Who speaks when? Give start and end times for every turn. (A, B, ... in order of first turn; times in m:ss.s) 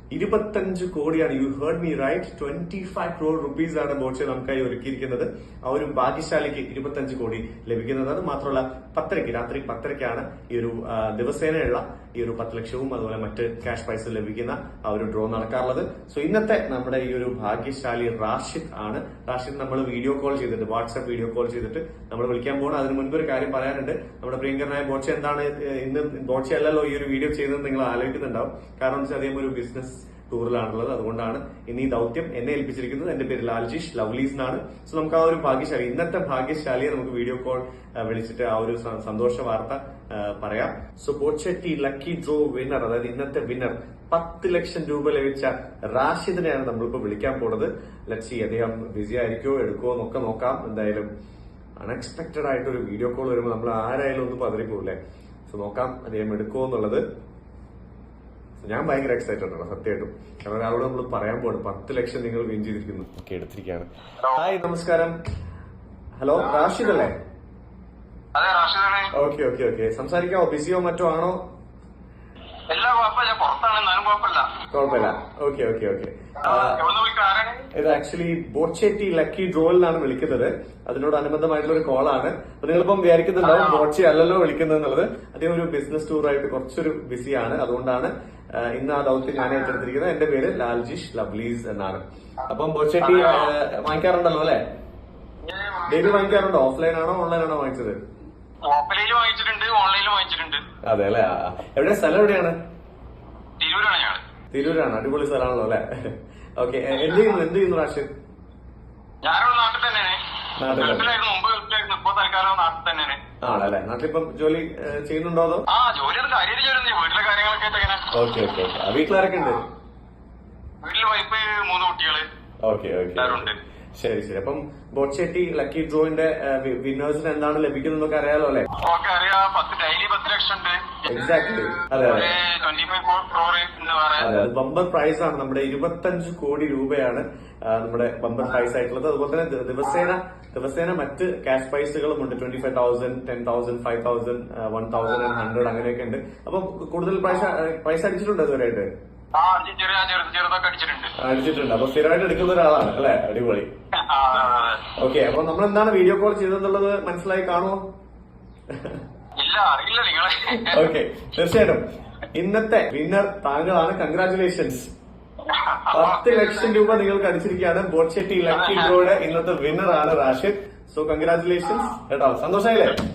0:00.1-0:51.1 A
0:51.8-0:55.0 A
0:55.5-0:57.0 A
0:58.6-1:05.1 A
1:04.2-1:04.6 B
1:06.2-1:07.2 A
1:08.3-1:09.1 B
1:09.1-1:11.4 A
1:12.7-1:14.5 B
1:14.7-1:16.8 A
1:16.4-1:17.7 B
1:17.7-1:34.6 A
1:23.4-1:23.9 B
1:33.0-1:33.5 B
1:35.5-1:35.8 B
1:35.8-1:38.0 A
1:38.6-1:40.6 B
1:40.8-1:42.5 A
1:43.6-1:44.2 B
1:44.5-1:48.1 A
1:49.2-1:53.2 B
1:50.6-1:51.0 A
1:53.4-1:55.6 A
1:55.7-1:58.1 B
1:58.1-1:59.7 A
2:00.8-2:02.2 B
2:02.6-2:08.7 A
2:03.2-2:03.6 B
2:08.8-2:11.2 B
2:11.0-2:12.3 A
2:12.0-2:14.3 B
2:14.2-2:28.9 A
2:29.3-2:31.1 B
2:31.2-2:33.7 A
2:33.9-2:34.9 B
2:35.0-2:37.8 A
2:38.7-2:39.0 A
2:39.4-2:40.9 B
2:40.6-2:41.8 A
2:42.3-2:44.9 A
2:45.4-2:46.9 B
2:45.9-2:53.0 A
2:48.5-2:49.0 B